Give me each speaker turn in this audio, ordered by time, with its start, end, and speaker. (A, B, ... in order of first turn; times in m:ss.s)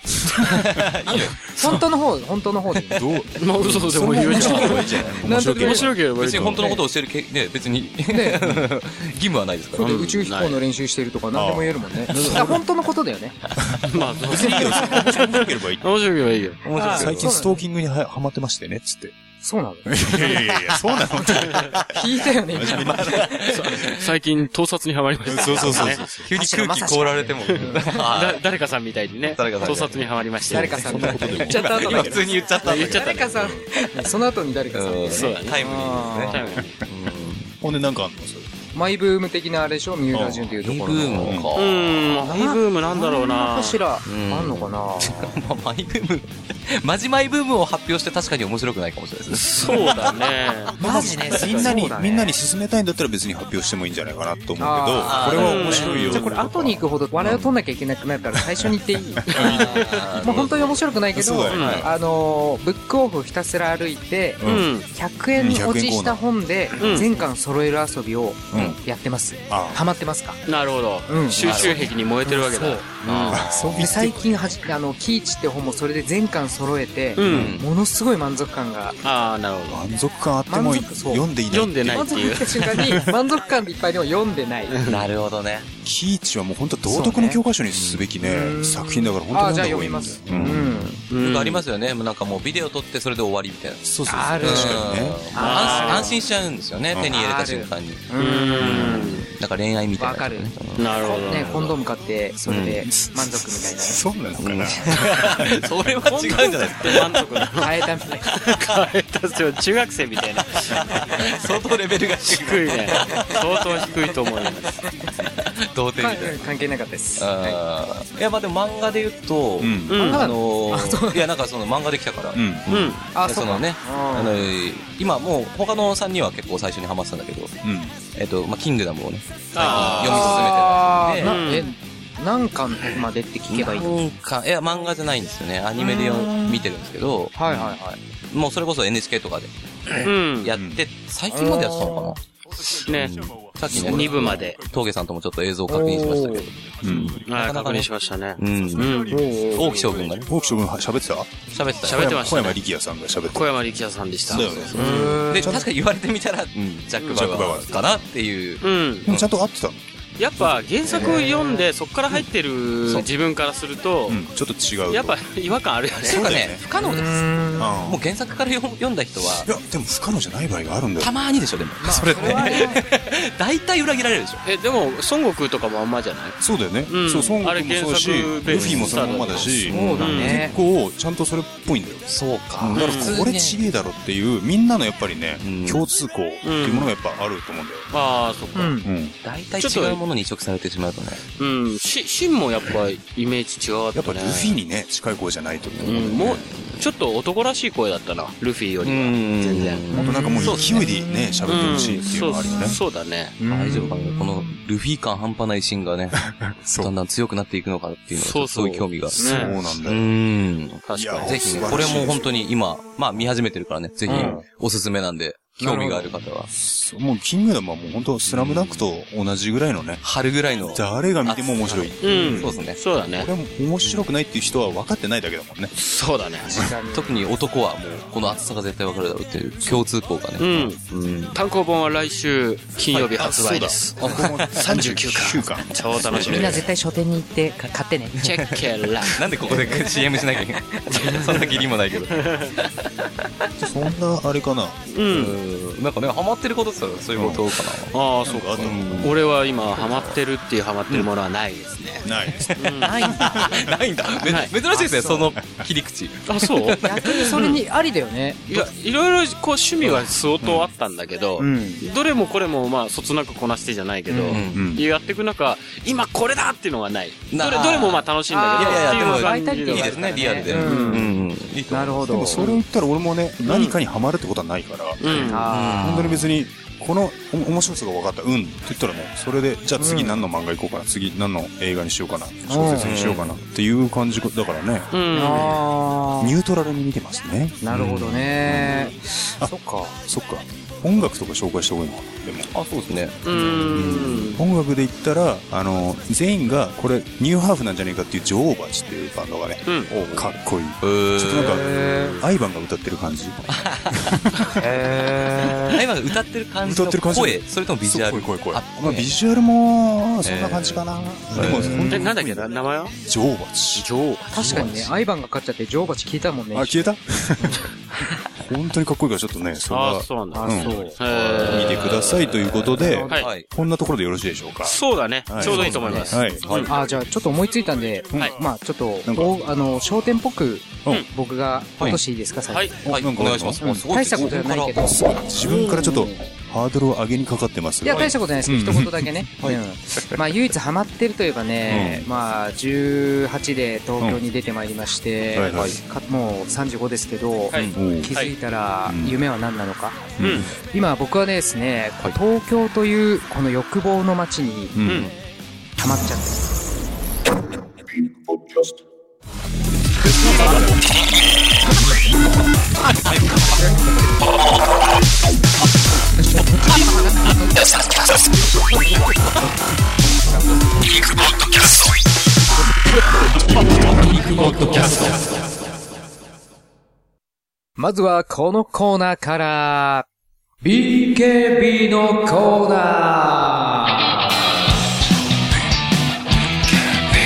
0:00.2-0:01.1 A
0:00.4-0:01.8 B
0:01.1-0:03.0 C
0:02.9-0:06.6 A
0:03.4-0:06.6 D
0:03.6-0:05.3 B
0:05.2-0:06.0 C
0:06.2-0:10.3 B
0:08.1-0:08.4 C
0:08.4-0:08.7 A
0:09.8-0:10.6 D
0:09.8-0:13.4 C
0:11.3-0:12.6 A
0:13.6-0:16.0 A
0:13.9-0:17.1 D
0:16.6-0:19.1 A
0:16.7-0:17.4 B
0:16.8-0:17.6 C
0:19.4-0:20.4 C
0:19.8-0:23.7 A
0:21.9-0:23.4 C
0:22.6-0:24.1 B
0:23.5-0:26.0 D
0:25.2-0:26.3 A
0:25.4-0:28.4 B
0:26.3-0:28.1 C
0:27.5-0:31.0 D
0:29.3-0:33.6 B
0:30.5-0:36.4 C
0:30.6-0:32.4 A
0:32.6-0:33.6 D
0:34.7-0:37.6 B
0:35.1-0:36.8 D
0:37.6-0:38.5 A
0:38.7-0:41.4 C
0:40.1-0:40.5 A
0:40.2-0:42.0 B
0:41.2-0:41.5 A
0:41.6-0:43.8 D
0:42.1-0:45.3 C
0:44.0-0:50.1 B
0:49.3-0:50.8 D
0:50.8-0:57.4 A
0:50.8-0:52.3 C
0:54.6-1:10.4 C
0:55.0-0:56.2 B
0:55.4-0:56.4 D
0:57.2-0:57.5 B
0:58.3-1:01.9 A
0:59.3-1:00.0 D
0:59.3-1:00.8 B
1:01.5-1:01.8 D
1:01.5-1:01.9 B
1:04.4-1:04.7 A
1:04.4-1:04.9 D
1:05.3-1:07.1 A
1:06.8-1:07.1 D
1:08.5-1:08.8 A
1:09.5-1:09.8 A
1:10.4-1:13.4 D
1:11.1-1:12.8 C
1:11.4-1:11.8 B
1:13.0-1:14.0 B
1:13.3-1:14.5 A
1:13.5-1:19.0 C
1:17.2-1:17.6 D
1:17.2-1:17.7 B
1:19.0-1:19.8 D
1:19.7-1:22.3 A
1:20.5-1:21.3 C
1:21.5-1:23.0 D
1:21.9-1:24.7 C
1:24.7-1:25.1 D
1:24.8-1:25.7 B
1:25.8-1:30.9 A
1:26.9-1:27.4 C
1:28.2-1:31.0 C
1:30.4-1:33.8 B
1:31.1-1:31.6 D
1:33.8-1:35.2 A
1:34.1-1:36.2 C
1:34.4-1:38.0 B
1:35.3-1:36.1 D
1:36.9-1:37.2 A
1:37.0-1:38.9 C
1:38.2-1:39.2 D
1:38.6-1:40.9 B
1:38.7-1:39.0 A
1:40.0-1:44.0 C
1:40.8-1:41.7 D
1:42.5-1:42.8 B
1:42.8-1:45.9 A
1:44.4-1:47.1 B
1:46.0-1:47.7 D
1:47.6-1:48.3 C
1:48.3-1:50.9 D
1:50.7-1:54.5 B
1:52.2-1:54.8 D
1:55.0-1:56.5 B
1:56.0-1:57.6 C
1:57.2-2:07.6 B
1:59.6-2:00.2 A
1:59.9-2:00.3 D
2:00.0-2:01.3 C
2:02.3-2:02.7 A
2:02.7-2:03.0 D
2:03.1-2:04.4 C
2:07.6-2:08.0 A
2:08.1-2:11.5 B
2:09.5-2:10.5 D
2:09.6-2:10.0 A
2:09.8-2:14.0 C
2:11.2-2:11.7 D
2:13.5-2:17.8 B
2:15.8-2:16.7 C
2:17.4-2:18.0 C
2:18.3-2:19.5 B
2:20.0-2:20.5 D
2:20.0-2:22.2 B
2:20.6-2:20.8 A
2:21.3-2:22.1 C
2:22.7-2:30.4 B
2:22.8-2:24.6 D
2:23.7-2:24.4 A
2:25.7-2:26.5 C
2:26.8-2:27.2 A
2:26.9-2:29.3 D
2:29.1-2:29.9 C
2:30.2-2:33.6 A
2:31.5-2:32.6 B
2:31.8-2:32.6 D
2:33.3-2:35.3 D
2:34.2-2:35.6 A
2:34.4-2:39.2 B
2:34.7-2:35.6 C
2:37.0-2:37.4 D
2:37.1-2:38.0 A
2:38.6-2:39.1 D
2:39.0-2:39.8 A
2:40.2-2:44.2 D
2:40.9-2:41.6 C
2:44.1-2:45.2 A
2:44.9-2:46.4 D
2:46.0-2:46.6 A
2:46.0-2:47.3 B
2:46.7-2:47.7 C
2:47.6-2:48.0 A
2:47.8-2:49.5 B
2:49.2-2:51.2 A
2:51.0-2:54.4 B
2:51.8-2:52.8 C
2:54.4-2:56.4 D
2:56.4-3:07.9 A
2:56.9-3:00.4 D
2:58.5-3:00.3 B
2:59.7-3:00.5 C
3:02.1-3:03.6 B
3:02.7-3:03.2 D
3:05.4-3:05.8 B
3:06.4-3:06.9 D
3:07.9-3:08.7 D
3:08.5-3:08.9 C
3:08.8-3:09.2 A
3:09.2-3:11.2 B
3:09.6-3:10.0 D
3:11.4-3:14.6 D
3:13.9-3:16.5 A
3:15.8-3:19.9 D
3:16.6-3:16.8 B
3:18.8-3:20.8 B
3:19.9-3:21.7 C
3:19.9-3:22.8 A
3:20.4-3:20.7 D
3:21.4-3:23.4 D
3:23.4-3:24.6 C
3:23.5-3:26.2 B
3:26.2-3:26.9 A
3:26.8-3:36.5 B
3:28.1-3:29.5 D
3:29.2-3:29.6 C
3:29.2-3:30.1 A
3:30.8-3:32.2 D
3:30.9-3:32.3 A
3:34.1-3:34.4 C
3:34.1-3:34.4 A
3:35.6-3:36.1 C
3:36.5-3:40.0 A
3:38.2-3:38.9 B
3:40.0-3:42.8 B
3:40.7-3:42.5 A
3:42.0-3:43.3 D
3:43.1-3:45.7 A
3:45.8-3:46.6 D
3:46.4-3:46.7 A
3:46.5-3:47.2 C
3:46.9-3:51.4 B
3:50.4-3:50.8 D
3:51.3-3:56.6 D
3:52.9-3:56.6 A
3:54.0-3:54.8 B
3:56.0-3:56.6 B
3:56.2-3:58.1 C
3:57.6-4:02.9 B
3:58.2-3:59.2 D
4:01.1-4:02.5 D
4:03.6-4:04.8 A
4:04.9-4:05.4 D
4:05.1-4:07.9 B
4:07.1-4:07.7 A
4:07.9-4:12.0 D
4:08.2-4:09.2 A
4:08.6-4:09.2 B
4:09.7-4:10.2 B
4:12.0-4:13.6 A
4:12.3-4:17.6 B
4:12.6-4:13.1 D
4:14.2-4:14.5 D
4:14.7-4:15.3 C
4:16.3-4:16.8 D
4:16.8-4:18.7 C
4:18.5-4:31.1 D
4:20.4-4:20.7 A
4:21.4-4:21.8 C
4:24.1-4:24.4 C
4:24.3-4:24.7 B
4:24.5-4:24.8 A
4:27.3-4:32.4 B
4:28.3-4:31.1 C
4:31.7-4:32.5 C
4:32.0-4:44.9 A
4:33.4-4:33.8 D
4:35.0-4:35.5 D
4:35.1-4:36.0 C
4:35.4-4:36.3 B
4:39.8-4:40.2 C
4:42.4-4:42.9 C
4:42.7-4:43.4 B
4:44.9-4:45.6 D
4:45.1-4:46.3 C
4:46.2-4:49.5 A
4:47.6-4:50.0 C
4:47.7-4:48.3 B
4:50.0-4:52.5 A
4:52.5-4:53.2 B
4:53.2-4:54.4 D
4:53.4-5:04.5 A
4:59.9-5:02.0 B
5:01.4-5:02.2 C
5:03.5-5:09.1 B
5:04.6-5:05.8 C
5:06.6-5:14.8 A
5:10.2-5:11.9 B
5:11.4-5:12.0 C
5:11.9-5:12.9 D
5:14.0-5:14.9 B
5:14.3-5:17.6 C
5:16.5-5:17.6 A
5:18.4-5:26.5 A
5:19.7-5:23.3 D
5:20.3-5:21.0 C
5:21.4-5:21.6 B
5:22.4-5:23.4 B
5:22.7-5:23.1 C
5:24.6-5:26.7 D
5:25.4-5:26.7 B
5:26.6-5:32.7 C
5:29.0-5:29.4 A
5:32.5-5:32.8 D
5:32.8-5:33.6 A
5:32.8-5:35.0 B
5:33.6-5:35.2 C
5:34.8-5:39.5 A
5:37.8-5:50.1 C
5:41.6-5:42.1 A
5:45.3-5:45.8 A
5:45.4-5:45.8 B
5:47.5-5:48.3 D
5:47.7-5:48.1 A
5:48.8-5:49.2 A
5:50.2-5:50.5 A
5:50.2-5:50.5 D
5:50.7-5:54.8 C
5:54.7-5:55.1 A
5:55.8-5:56.4 C
6:00.2-6:00.7 B
6:00.3-6:00.6 C
6:03.1-6:03.5 B
6:03.6-6:03.9 C
6:06.7-6:07.5 C
6:08.7-6:09.1 C
6:14.0-6:15.2 C
6:14.3-6:15.1 A
6:17.8-6:20.0 C
6:20.6-6:24.2 C